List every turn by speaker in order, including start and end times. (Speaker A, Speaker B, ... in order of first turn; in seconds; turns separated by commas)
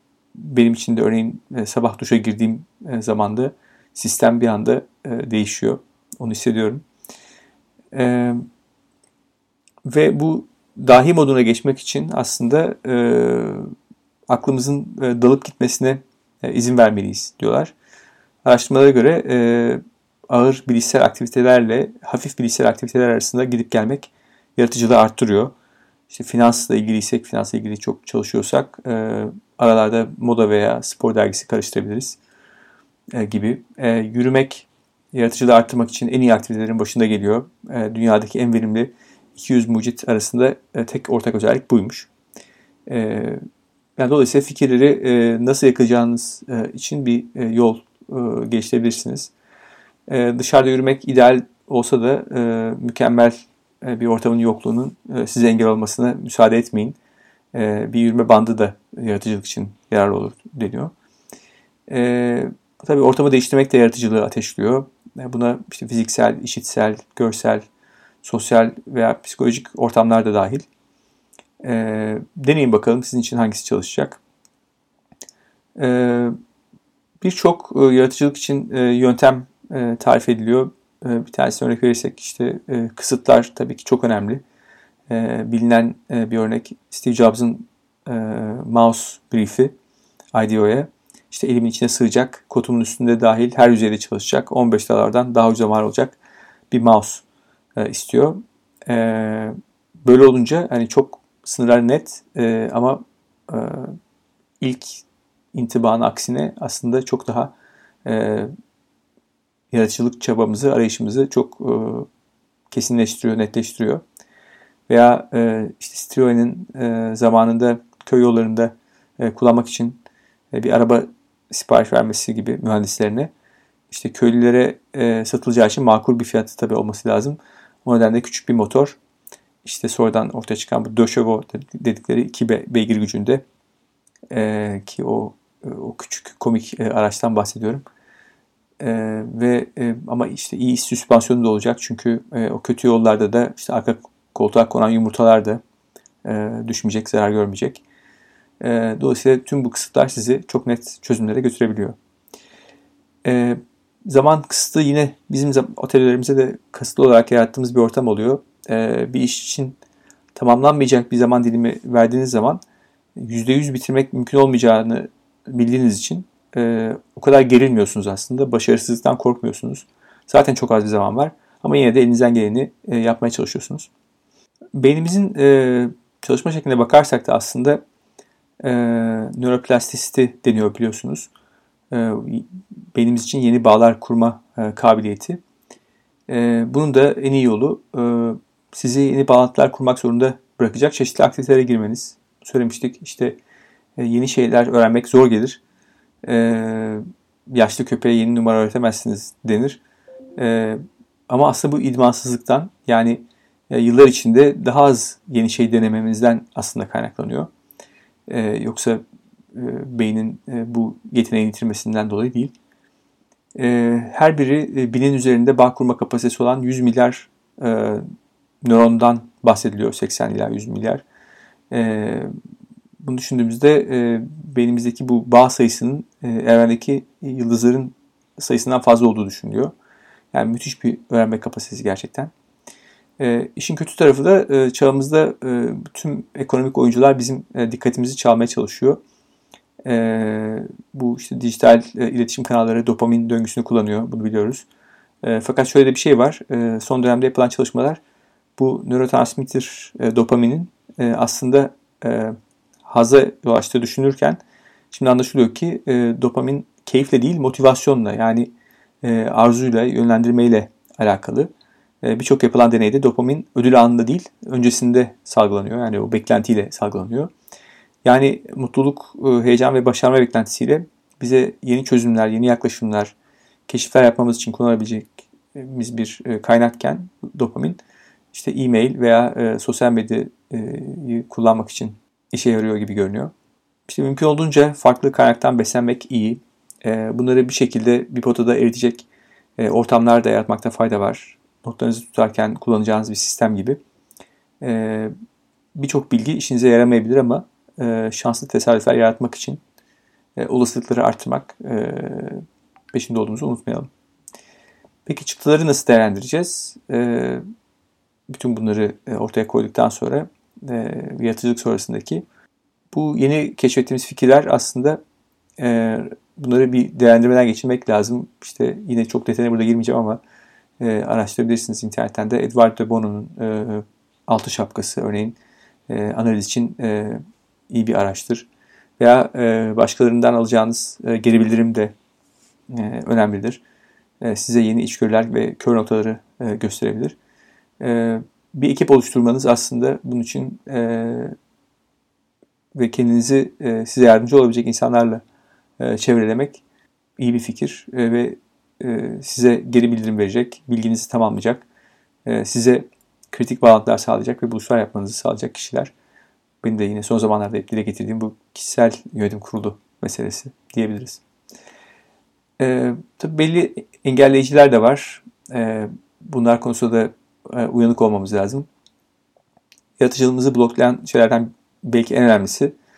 Speaker A: 0.3-6.8, Speaker A: 7.9-8.4, Speaker A: 9.8-13.7, Speaker A: 14.3-17.7, Speaker A: 18.4-25.5, Speaker A: 26.1-32.2, Speaker A: 33.1-42.1, Speaker A: 42.9-43.4, Speaker A: 44.0-49.3, Speaker A: 50.1-57.0, Speaker A: 57.5-60.9, Speaker A: 61.9-67.7, Speaker A: 68.2-70.7, Speaker A: 71.6-74.2, Speaker A: 75.8-76.3, Speaker A: 77.2-84.4, Speaker A: 85.1-89.7, Speaker A: 90.3-96.2, Speaker A: 96.7-97.2, Speaker A: 97.8-104.0, Speaker A: 104.6-107.5, Speaker A: 108.0-108.5, Speaker A: 109.7-112.1, Speaker A: 112.7-114.0, Speaker A: 114.9-120.0, Speaker A: 120.5-123.3, Speaker A: 123.9-129.0, Speaker A: 129.6-133.4, Speaker A: 134.3-137.8, Speaker A: 138.8-145.6, Speaker A: 146.2-147.8, Speaker A: 148.6-152.0, Speaker A: 153.2-159.8, Speaker A: 160.3-162.6, Speaker A: 163.2-173.9, Speaker A: 174.7-177.8, Speaker A: 178.6-181.3, Speaker A: 181.9-185.4, Speaker A: 186.3-193.4, Speaker A: 194.0-195.6, Speaker A: 196.2-199.8, Speaker A: 200.4-207.5, Speaker A: 208.3-209.0, Speaker A: 209.5-212.5, Speaker A: 213.6-218.0, Speaker A: 218.6-221.0, Speaker A: 221.7-222.3, Speaker A: 223.0-229.7, Speaker A: 230.3-232.3, Speaker A: 233.2-239.0, Speaker A: 239.8-244.7, Speaker A: 245.2-248.0, Speaker A: 248.6-258.5, Speaker A: 259.0-261.5, Speaker A: 262.0-267.3, Speaker A: 268.0-273.1, Speaker A: 273.7-277.8, Speaker A: 278.3-283.3, Speaker A: 283.9-289.1, Speaker A: 289.6-293.8, Speaker A: 294.6-295.1, Speaker A: 295.7-299.6, Speaker A: 300.4-303.9, Speaker A: 305.1-307.4, Speaker A: 308.3-312.2, Speaker A: 312.9-315.0, Speaker A: 315.6-320.2, Speaker A: 320.8-325.4, Speaker A: 325.9-328.5, Speaker A: 329.0-331.9, Speaker A: 332.7-333.6, Speaker A: 334.2-337.2, Speaker A: 337.8-341.3, Speaker A: 342.7-345.2, Speaker A: 345.8-346.6, Speaker A: 347.2-351.6, Speaker A: 352.2-355.9, Speaker A: 356.6-361.2, Speaker A: 362.6-368.7, Speaker A: 370.0-372.7